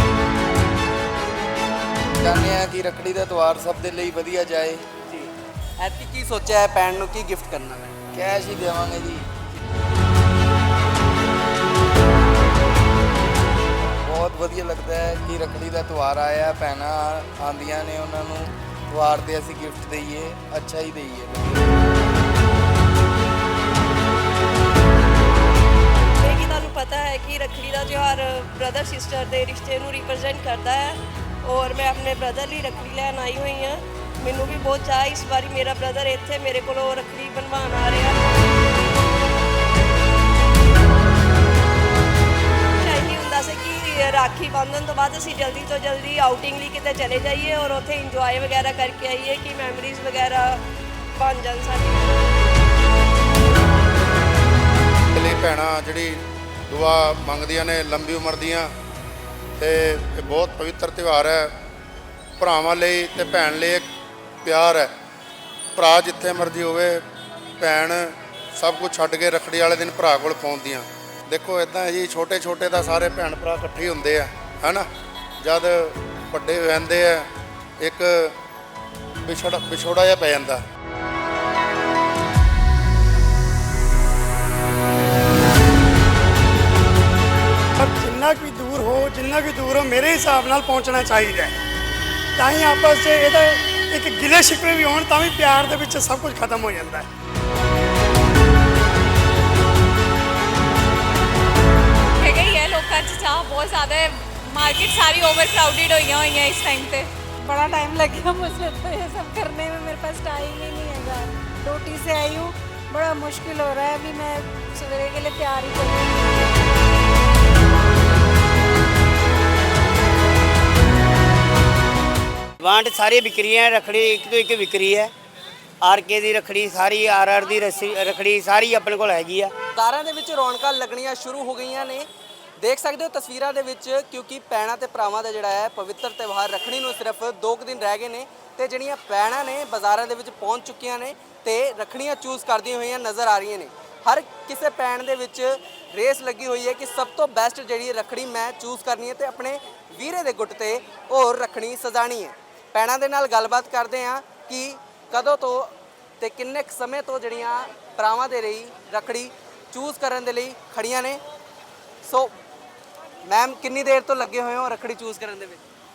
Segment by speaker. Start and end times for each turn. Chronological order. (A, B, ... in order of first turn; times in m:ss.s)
0:02.2-0:04.8 A
0:05.0-0:07.9 B
0:08.1-0:09.2 A
0:14.0-0:21.8 A
0:26.1-0:38.2 C
0:42.8-0:52.2 C
0:55.1-0:58.7 D
0:59.6-1:01.5 D
1:02.4-1:03.9 D
1:04.4-1:04.9 D
1:05.8-1:07.0 D
1:07.6-1:14.9 D
1:15.4-1:17.3 D
1:17.8-1:18.4 D
1:19.2-1:20.6 D
1:27.8-1:31.5 E
1:32.4-1:37.0 E
1:42.3-1:47.0 F
1:47.4-1:56.5 G
2:02.6-2:05.1 H
2:05.8-2:09.5 H
2:09.7-2:12.1 B
2:12.6-2:41.2 B
2:42.0-2:42.3 B
2:43.2-2:45.6 B